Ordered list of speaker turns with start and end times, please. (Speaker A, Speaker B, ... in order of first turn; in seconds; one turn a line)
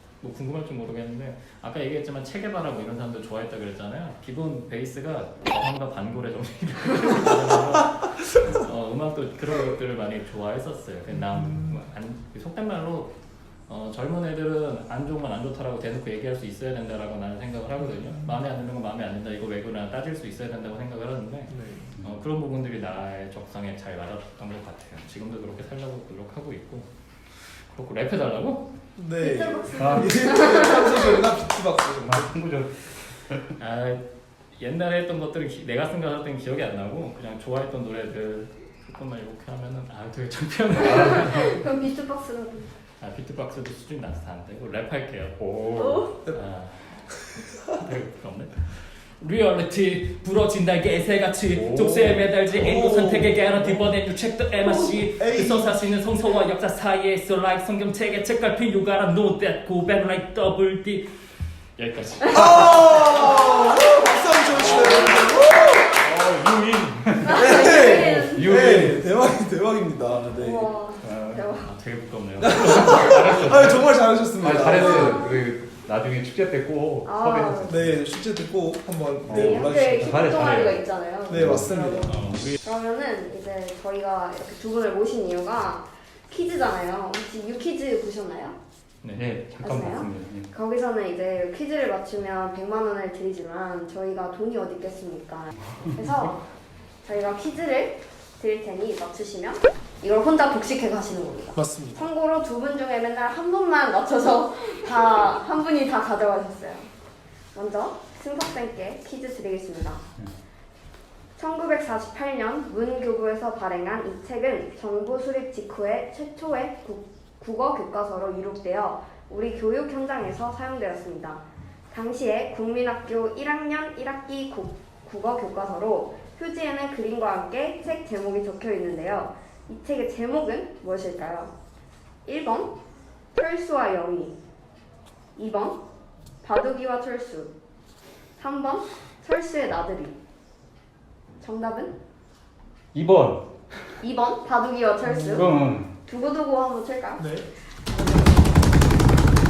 Speaker A: 0.2-13.1
Speaker B: 11.1-11.9
Speaker A: 13.7-28.7
Speaker B: 18.1-18.4
Speaker B: 21.5-22.0
Speaker B: 29.0-32.3
Speaker C: 29.2-31.2
Speaker D: 29.8-30.1
Speaker D: 32.1-33.5
Speaker A: 33.6-41.5
Speaker C: 40.8-42.7
Speaker D: 40.9-41.2
Speaker A: 43.0-45.4
Speaker D: 45.4-46.0
Speaker C: 45.8-46.1
Speaker A: 46.3-61.2
Speaker B: 47.1-47.8
Speaker B: 51.6-53.9
Speaker B: 54.6-55.8
Speaker A: 61.8-63.4
Speaker B: 62.3-65.9
Speaker C: 63.1-63.8
Speaker A: 64.5-65.2
Speaker C: 64.6-65.9
Speaker A: 66.0-66.7
Speaker D: 66.0-69.0
Speaker C: 67.2-68.6
Speaker B: 67.3-70.7
Speaker C: 70.3-71.7
Speaker A: 71.0-73.9
Speaker B: 72.4-75.2
Speaker D: 74.4-78.0
Speaker C: 74.7-75.5
Speaker C: 77.0-77.9
Speaker B: 77.7-80.3
Speaker C: 79.3-88.6
Speaker D: 79.3-80.8
Speaker B: 81.3-82.2
Speaker A: 82.1-82.6
Speaker D: 89.1-90.5
Speaker C: 89.6-96.4
Speaker C: 97.0-106.9
Speaker B: 101.5-102.0
Speaker C: 107.5-110.0
Speaker C: 111.4-131.5
Speaker C: 132.3-132.8
Speaker C: 133.3-134.3
Speaker C: 135.4-135.8
Speaker C: 136.4-137.5
Speaker C: 138.4-140.2
Speaker C: 141.4-141.9
Speaker D: 142.9-144.0
Speaker C: 144.0-145.5
Speaker B: 145.0-145.5
Speaker D: 145.4-145.9
Speaker C: 146.1-147.3
Speaker B: 147.2-147.5
Speaker C: 147.9-148.6